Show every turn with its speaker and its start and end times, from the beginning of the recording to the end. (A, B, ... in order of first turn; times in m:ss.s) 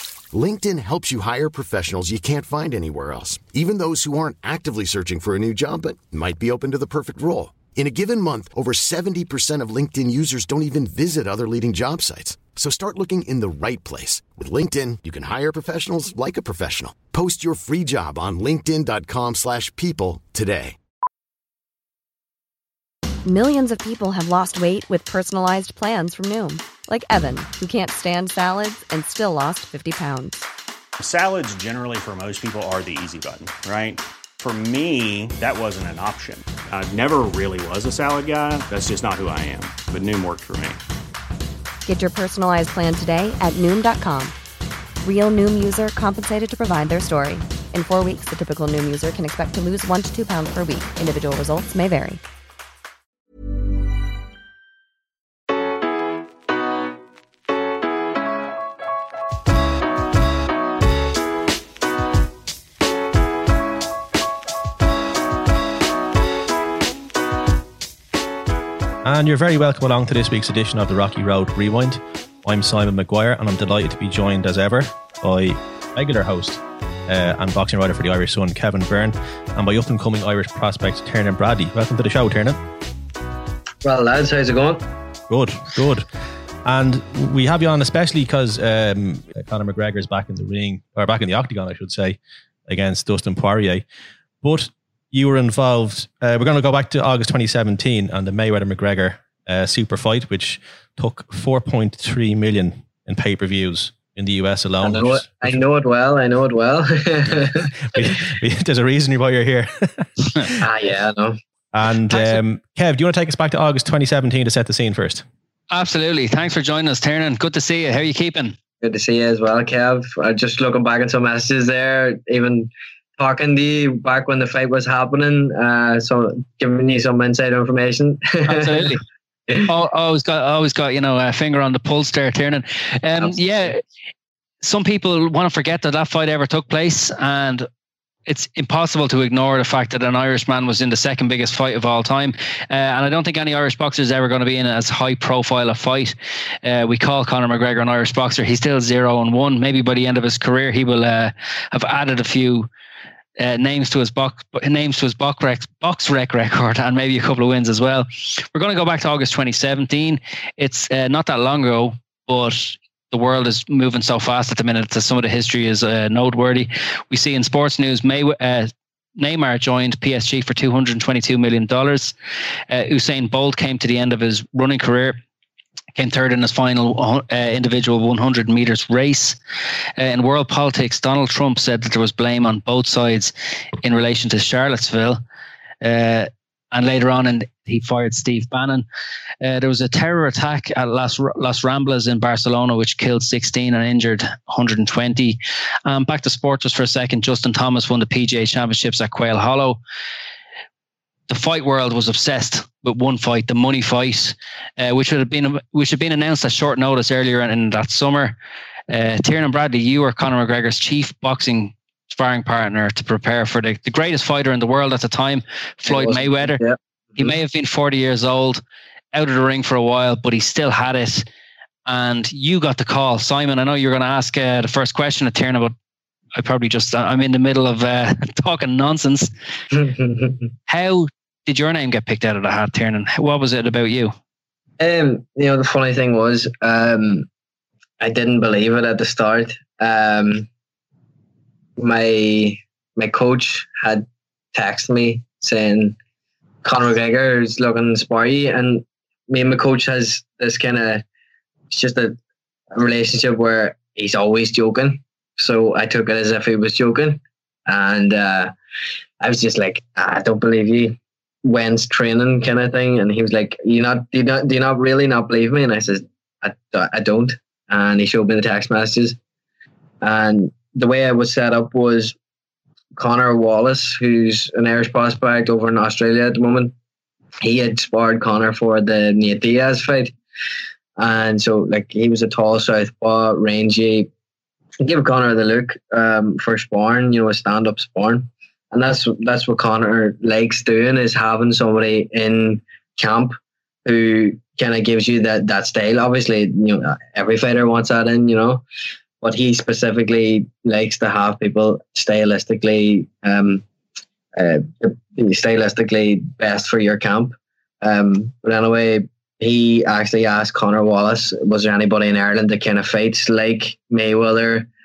0:00.3-0:20.8 A
0:23.3-0:30.4 B
0:31.0-0:40.8 C
0:41.9-0:44.4 B
0:45.0-0:52.2 B
1:09.0-1:22.6 D
1:23.8-1:24.8 E
1:25.3-1:26.1 D
1:26.6-1:33.8 D
1:34.4-1:45.6 D
1:44.8-1:47.7 E
1:47.9-1:50.6 D
1:50.6-1:51.4 E
1:51.7-1:55.2 D
1:55.7-1:58.6 F
1:58.8-2:09.0 E
2:08.5-2:09.0 F
2:09.6-2:13.8 F
2:14.6-2:17.7 F
2:18.3-2:32.7 F
2:33.4-2:52.1 F
2:52.7-2:55.2 F
2:56.0-2:59.4 F
3:00.0-3:05.2 F
3:05.8-3:08.9 F
3:09.4-3:19.8 F
3:21.3-3:28.4 F
3:28.9-3:36.6 F
3:35.8-3:37.4 E
3:37.2-3:38.6 F
3:39.1-3:41.2 F
3:41.9-3:45.7 F
3:46.4-3:49.3 F
3:49.7-3:50.5 E
3:50.7-3:54.1 F
3:54.8-3:57.3 E
3:58.0-4:00.5 E
4:01.8-4:06.0 E
4:06.6-4:11.0 E
4:11.7-4:12.2 E
4:12.7-4:18.5 E
4:19.2-4:29.2 E
4:30.0-4:32.2 E
4:33.0-4:36.7 E
4:37.4-4:40.1 E
4:41.0-4:44.1 E
4:44.8-4:58.6 E
4:59.2-5:03.6 E
5:04.4-5:14.7 E